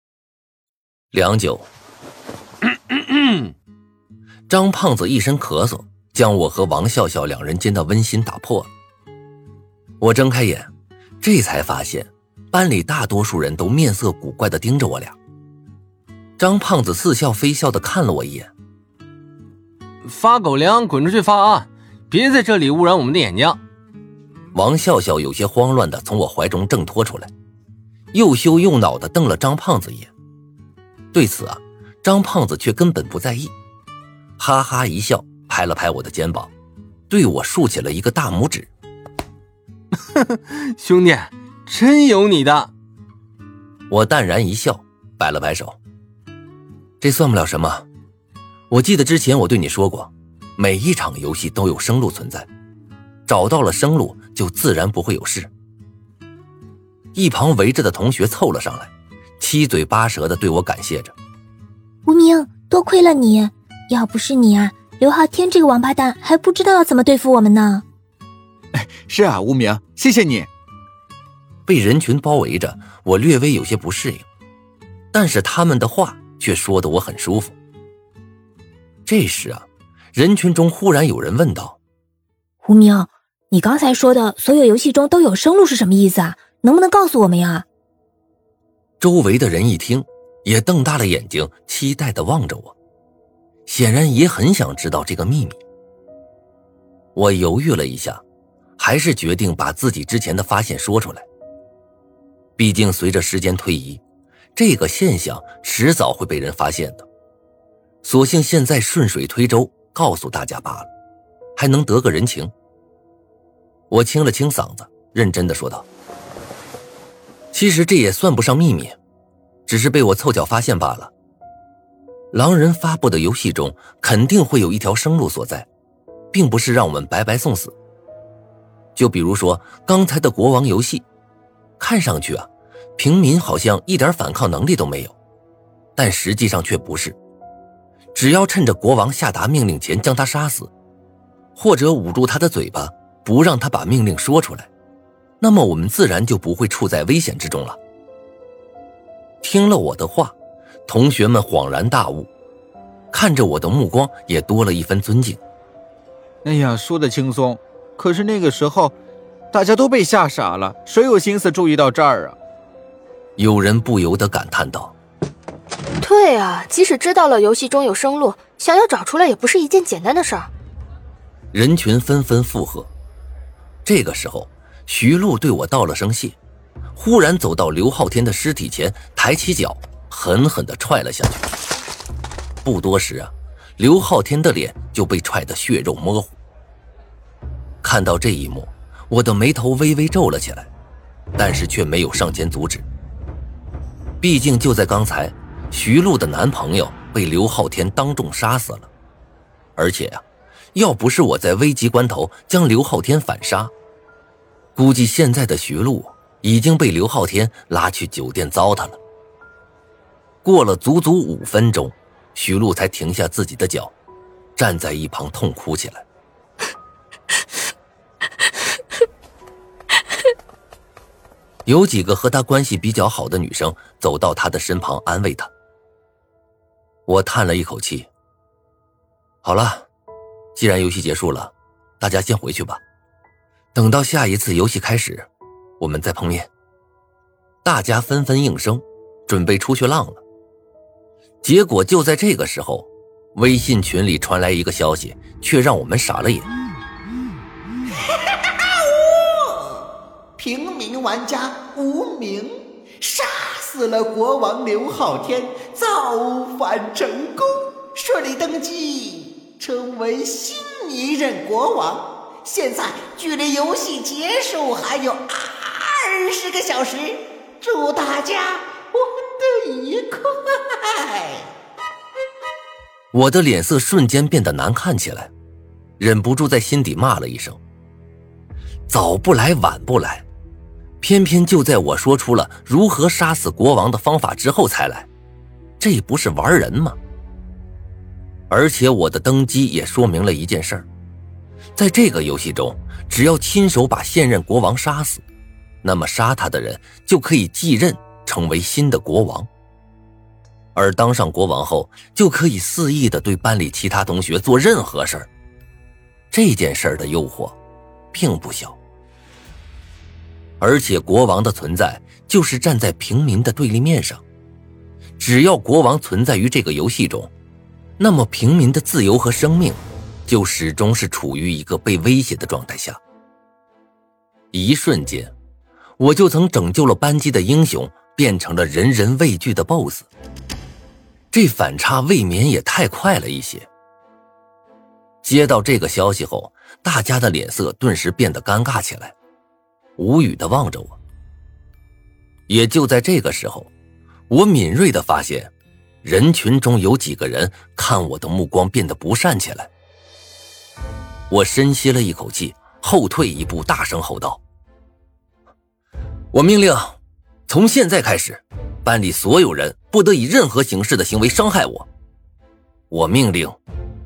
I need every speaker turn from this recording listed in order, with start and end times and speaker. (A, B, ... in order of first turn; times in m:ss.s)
0:01.1-0:01.7 A
0:04.5-0:08.7 A
0:10.0-0:15.2 A
0:16.4-0:18.5 A
0:20.0-0:23.6 B
0:24.5-0:27.3 A
0:28.1-0:30.1 A
0:31.1-0:33.5 A
0:34.4-0:36.5 A
0:37.1-0:38.7 A
0:40.2-0:42.7 B
0:43.9-0:45.8 A
0:47.0-0:47.8 A
0:48.7-0:52.5 A
0:53.2-0:55.5 A
0:57.1-1:01.1 A
1:02.1-1:07.8 C
1:08.7-1:10.5 D
1:11.7-1:14.3 A
1:15.1-1:17.5 A
1:19.0-1:21.8 A
1:22.8-1:23.1 C
1:23.6-1:27.6 C
1:29.0-1:32.7 A
1:33.7-1:35.6 A
1:37.1-1:38.2 A
1:38.8-1:41.2 A
1:42.6-1:44.0 A
1:44.6-1:47.0 A
1:48.0-1:50.9 A
1:51.6-1:52.5 A
1:53.9-1:55.8 A
1:57.5-1:59.0 A
1:59.7-2:01.1 A
2:02.3-2:05.7 A
2:06.3-2:07.7 A
2:08.9-2:11.0 A
2:11.8-2:15.1 A
2:16.0-2:17.2 A
2:18.1-2:20.7 A
2:21.5-2:24.7 A
2:25.4-2:27.8 A
2:29.4-2:30.3 A
2:30.9-2:32.3 A
2:33.1-2:35.4 A
2:36.4-2:38.9 D
2:39.5-2:42.4 D
2:43.4-2:44.9 A
2:46.0-2:50.5 E
2:51.5-2:52.9 A
2:53.8-2:56.4 A
2:56.9-3:01.5 A
3:02.6-3:06.4 A
3:07.8-3:10.7 A
3:11.4-3:12.8 A
3:14.2-3:18.9 A
3:19.8-3:20.2 A
3:20.7-3:23.7 A
3:24.8-3:29.0 A
3:30.4-3:33.9 A
3:34.6-3:36.0 A
3:41.6-3:45.5 A
3:47.1-3:48.1 A
3:49.4-3:49.9 A
3:50.5-3:52.8 A
3:53.7-3:55.3 A
3:55.8-3:56.5 A
3:57.6-4:00.2 A
4:01.4-4:06.5 A
4:08.3-4:09.6 F
4:10.4-4:31.4 F
4:33.1-4:35.3 A
4:36.0-4:37.6 A
4:38.9-4:40.2 A
4:41.0-4:45.1 A
4:45.8-4:47.0 A
4:48.5-4:50.9 A
4:51.8-4:55.2 A
4:55.8-4:59.5 A
5:00.7-5:05.3 A
5:06.3-5:07.6 A
5:08.1-5:08.8 A
5:10.6-5:14.2 A
5:15.2-5:17.3 A
5:18.0-5:23.0 A
5:24.5-5:25.3 A
5:26.0-5:30.1 A
5:31.3-5:33.7 A
5:35.2-5:39.1 A
5:40.0-5:41.0 A
5:42.5-5:43.7 A
5:44.3-5:49.7 A
5:51.3-5:54.4 A
5:56.3-6:01.9 A
6:02.9-6:03.6 A